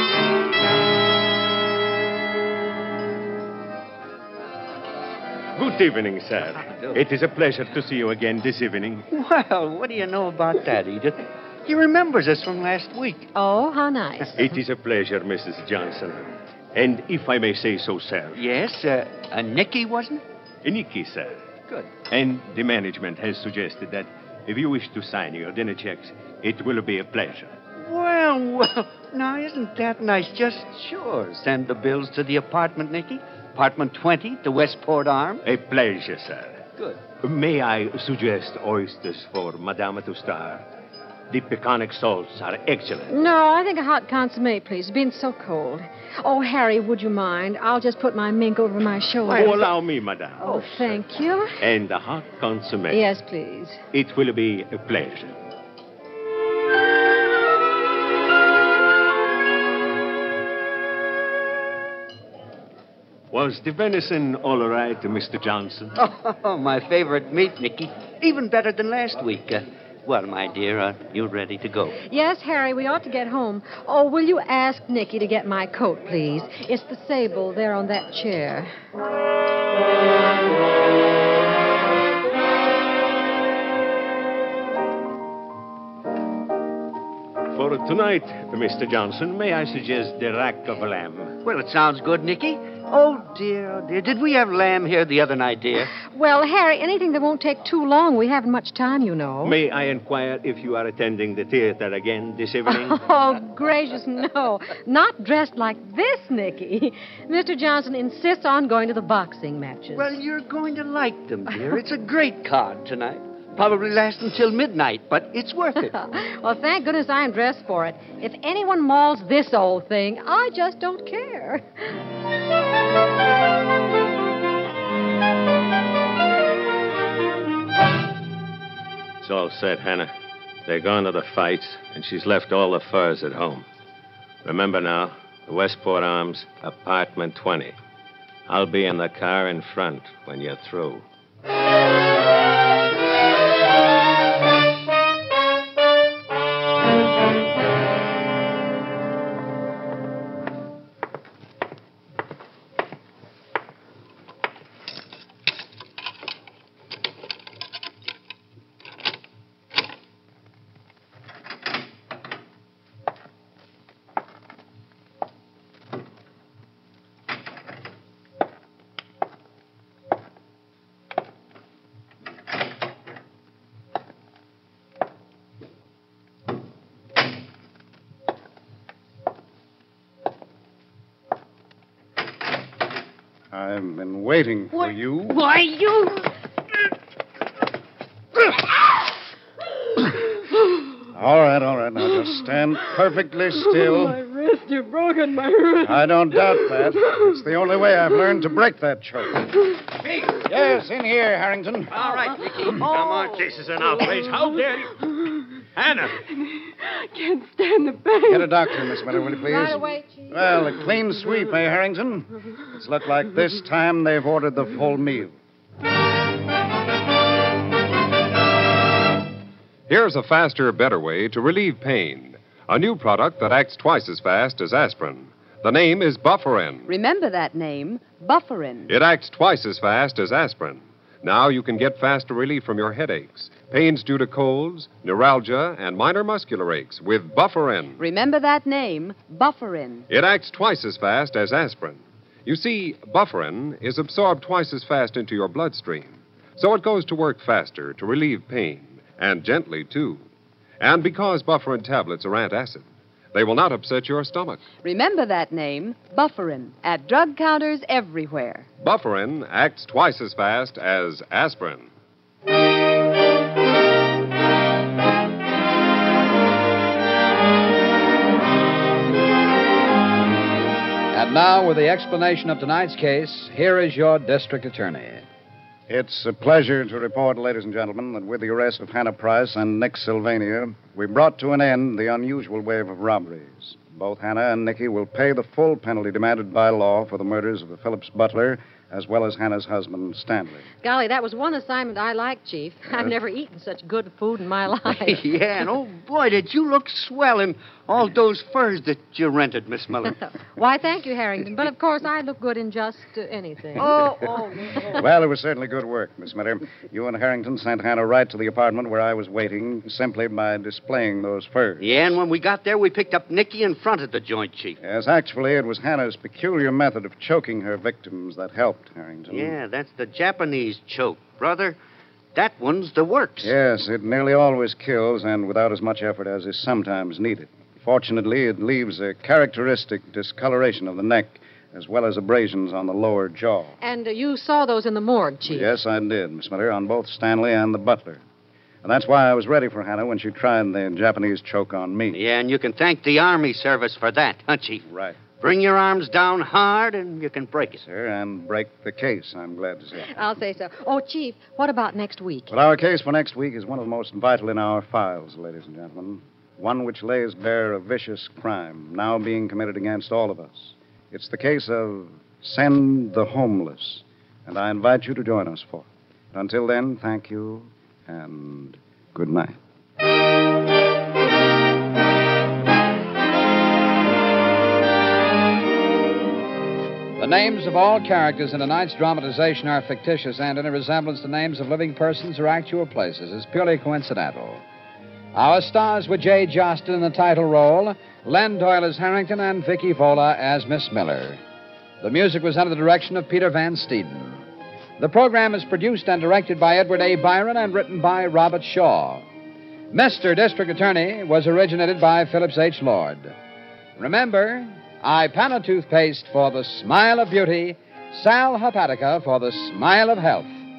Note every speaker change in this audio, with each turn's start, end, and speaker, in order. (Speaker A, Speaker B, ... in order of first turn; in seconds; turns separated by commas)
Speaker A: 5.5-9.1, Speaker B: 9.1-13.3, Speaker C: 13.3-14.4, Speaker A: 14.4-18.4, Speaker B: 18.4-20.2, Speaker A: 20.6-21.4, Speaker A: 22.1-27.6, Speaker B: 27.8-35.4, Speaker A: 35.4-40.7, Speaker A: 41.3-43.2, Speaker C: 43.1-49.7, Speaker A: 49.2-51.0, Speaker C: 50.4-51.6, Speaker A: 51.6-53.1, Speaker C: 52.9-53.8, Speaker A: 53.9-55.4, Speaker A: 63.3-65.9, Speaker B: 66.0-72.0, Speaker C: 72.0-78.7, Speaker A: 87.5-91.4, Speaker B: 91.4-95.9, Speaker C: 96.1-99.5, Speaker A: 99.4-103.0, Speaker C: 102.7-110.2, Speaker B: 109.9-116.0, Speaker C: 116.0-121.6, Speaker A: 129.2-130.1, Speaker A: 130.7-133.7, Speaker A: 134.4-137.8, Speaker A: 138.5-141.1, Speaker D: 183.5-185.4, Speaker E: 184.7-186.3, Speaker D: 191.1-194.2, Speaker E: 193.7-197.2, Speaker D: 195.8-199.5, Speaker D: 200.3-201.9, Speaker A: 201.9-205.0, Speaker B: 202.0-203.3, Speaker E: 202.6-203.4, Speaker E: 204.0-204.6, Speaker A: 205.7-206.2, Speaker E: 206.2-209.2, Speaker D: 208.3-215.3, Speaker C: 209.4-210.8, Speaker F: 219.9-226.9, Speaker G: 226.8-228.9, Speaker F: 228.9-238.0, Speaker G: 238.0-240.1, Speaker F: 240.1-250.2, Speaker F: 250.8-254.6, Speaker G: 254.8-258.7, Speaker F: 258.8-261.9, Speaker H: 271.1-275.2, Speaker D: 275.9-290.7, Speaker C: 290.8-295.2, Speaker B: 294.9-300.1, Speaker C: 300.5-304.9, Speaker B: 303.8-305.0, Speaker D: 304.9-311.9, Speaker B: 311.8-314.8, Speaker D: 314.8-319.6, Speaker B: 319.3-321.8, Speaker B: 322.3-323.5, Speaker D: 323.4-333.7, Speaker C: 333.8-335.7, Speaker D: 335.4-338.2, Speaker D: 338.8-342.2, Speaker B: 342.1-344.9, Speaker D: 344.9-345.2, Speaker B: 345.4-347.8, Speaker D: 347.8-350.2, Speaker C: 350.1-352.5, Speaker D: 352.5-369.6, Speaker H: 377.2-384.6, Speaker H: 385.3-391.4, Speaker H: 392.0-394.4, Speaker H: 395.0-399.2, Speaker H: 399.9-403.3, Speaker H: 404.0-410.5